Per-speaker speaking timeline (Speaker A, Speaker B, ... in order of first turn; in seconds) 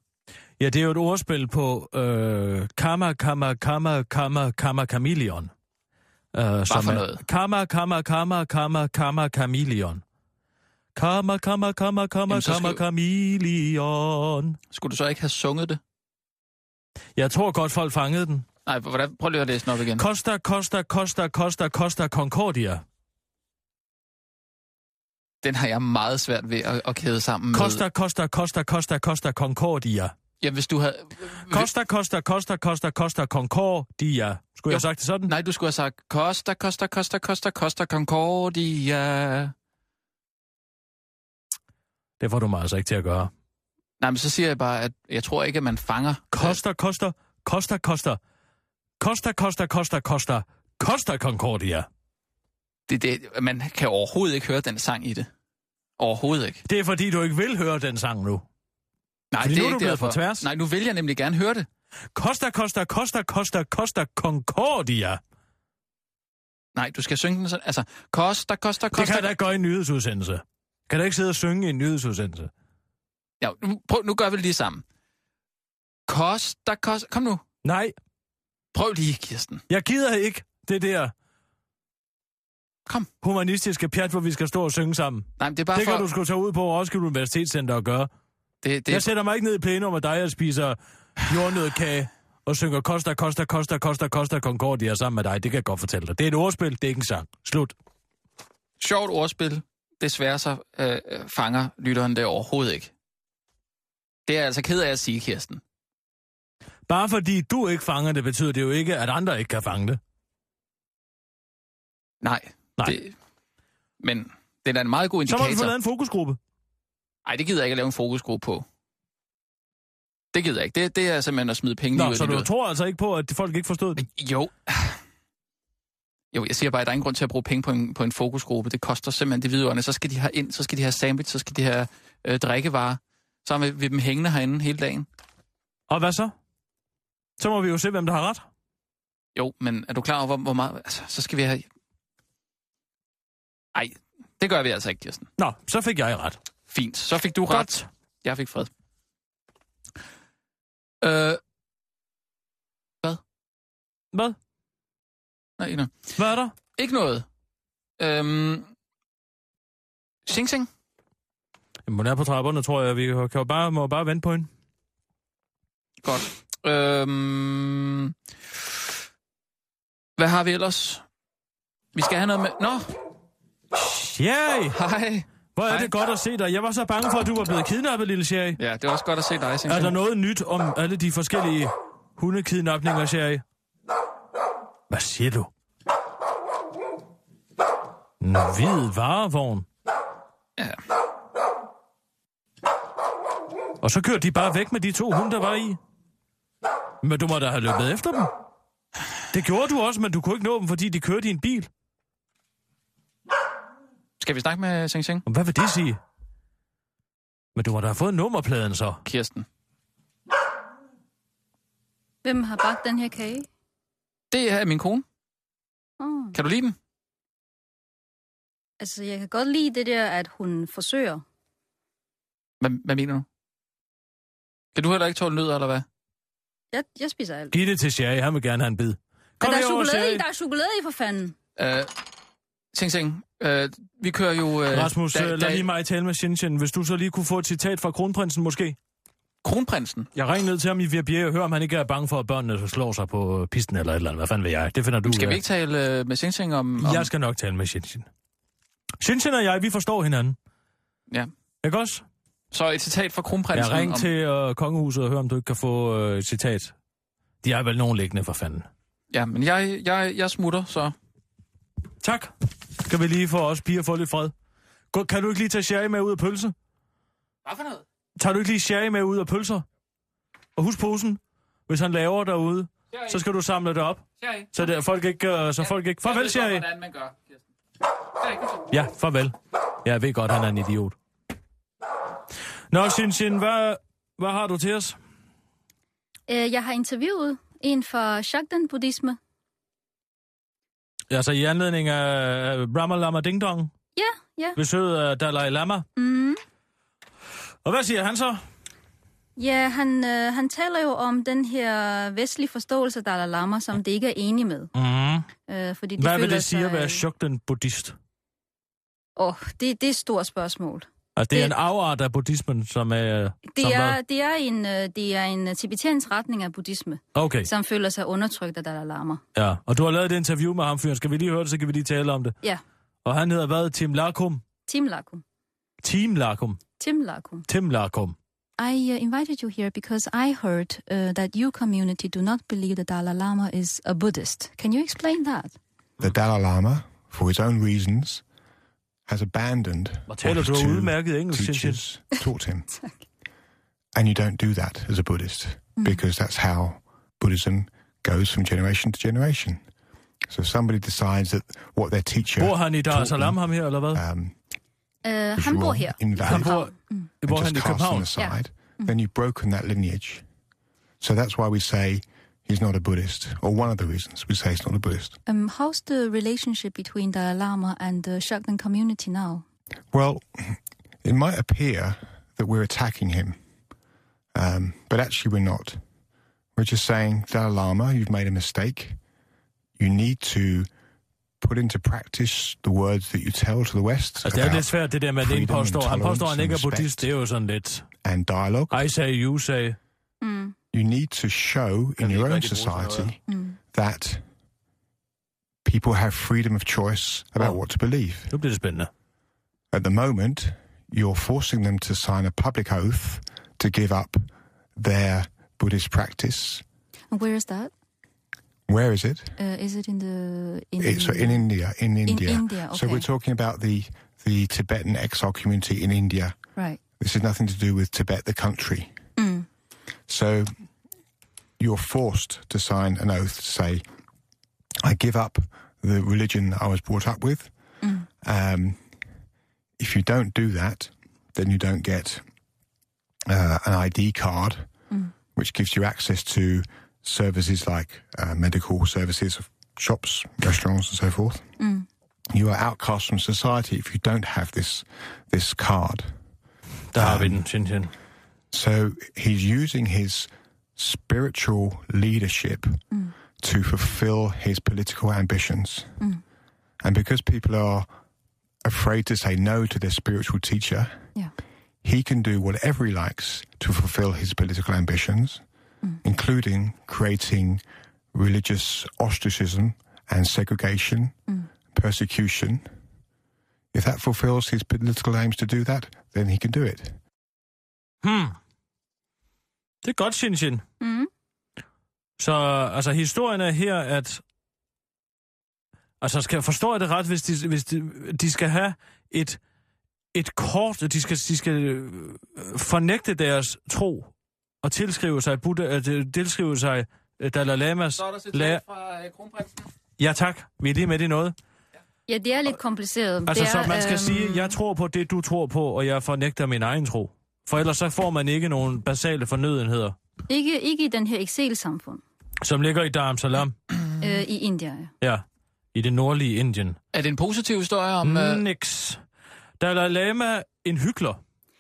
Speaker A: 0.6-5.5, 6.3-10.0, 10.9-14.6, 17.2-18.5, 20.0-22.8, 27.5-30.1, 31.5-35.3, 42.2-43.3, 46.3-48.2, 49.0-51.9, 56.7-58.5, 59.4-60.5, 62.1-65.2, 68.9-72.5, 77.6-78.0, 79.7-81.1, 83.2-88.1, 88.9-97.8, 106.9-110.0, 115.3-116.4, 121.9-124.1, 135.9-136.3, 137.4-138.5, 145.4-146.4, 147.5-147.8, 156.2-156.5, 161.9-164.5, 173.7-174.8, 175.6-178.6, 179.7-183.4, 184.9-185.5, 188.2-189.7, 193.8-195.8, 197.0-198.3, 199.3-201.7, 205.3-206.0, 207.6-209.0, 227.5-230.2, 234.7-238.8, 240.2-245.4, 246.8-248.1, 249.0-250.4, 251.6-252.0, 253.5-256.7, 257.4-258.7, 262.0-264.3, 264.9-266.5, 268.2-269.6, 270.6-276.7, 278.7-281.0, 282.7-285.0, 291.1-293.7, 294.6-295.9, 297.6-298.4, 304.8-305.3, 306.0-308.0, 311.2-314.0, 317.1-317.5, 319.4-322.4, 323.1-324.4, 325.8-326.6, 327.5-328.2, 340.1-341.8, 352.4-354.0, 356.2-358.1, 384.2-387.9, 388.7-389.8, 392.1-393.1, 398.3-398.9, 446.9-447.9, 478.0-478.4, 479.8-480.6, 482.2-484.2, 486.0-489.4, 490.1-494.1, 494.6-498.6, 500.0-501.4, 503.3-510.0, 512.4-513.6, 515.0-516.8, 518.0-519.0, 519.6-521.2
Speaker B: 6.7-7.2, 12.3-12.8, 14.7-15.8, 18.7-20.1, 25.4-27.8, 30.4-31.7, 34.7-39.5, 44.0-46.6, 52.9-55.3, 56.0-56.6, 59.3-61.7, 66.8-69.3, 73.4-74.8, 76.1-77.4, 78.7-79.6, 85.4-86.1, 88.6-89.1, 98.8-102.9, 104.3-105.6, 112.2-113.1, 114.0-115.7, 117.2-118.7, 120.3-122.5, 124.0-125.0, 126.3-135.1, 139.3-141.7, 143.7-145.3, 146.7-148.7, 151.0-151.4, 155.6-156.1, 156.8-157.2, 158.0-158.7, 160.3-160.7, 166.0-168.1, 170.2-171.0, 171.9-172.9, 174.7-175.9, 178.6-180.0, 204.2-205.2, 209.1-209.5, 214.3-215.0, 216.3-216.8, 222.6-223.3, 224.8-225.8, 231.6-231.9, 232.7-235.7, 239.4-240.1, 245.0-247.1, 252.5-254.1, 259.1-260.9, 267.4-267.8, 272.9-273.2, 274.2-274.5, 275.7-277.4, 278.2-278.6, 498.0-499.7, 516.9-518.4
Speaker C: 212.2-213.5, 216.0-216.4, 218.8-221.2, 226.7-227.6, 229.4-231.4, 286.3-289.2, 294.0-294.6, 296.0-296.4, 299.4-304.7, 305.5-307.0, 309.2-311.5, 313.5-319.2, 324.7-325.2, 326.8-327.4, 328.6-335.6, 342.7-343.0, 345.8-346.0, 355.0-357.1, 358.1-358.9, 365.3-369.4, 390.2-390.6, 393.3-393.6, 407.1-407.7, 409.4-411.4, 412.1-413.1, 419.2-419.5, 441.6-441.9, 480.8-481.1, 502.1-504.6, 510.3-512.0, 514.0-514.9
Speaker D: 336.0-338.2, 339.1-342.7, 343.9-349.6, 350.3-354.4, 355.4-356.5, 357.2-360.2, 361.0-365.2, 369.9-373.4, 374.4-375.8, 376.6-379.0, 379.8-380.7, 381.4-387.1, 388.0-388.9, 390.7-394.2, 395.6-398.3, 399.7-404.2, 404.8-406.6, 408.7-409.4, 410.8-416.4, 416.9-418.9, 420.1-420.5, 421.6-423.8, 424.8-427.5, 428.2-428.9, 429.8-432.2, 433.3-434.7, 435.3-441.5, 442.3-446.1, 447.0-447.4, 448.5-452.8, 453.4-455.9, 456.8-457.9, 458.6-461.0, 461.8-465.4, 466.0-467.6, 468.1-472.6, 473.7-477.0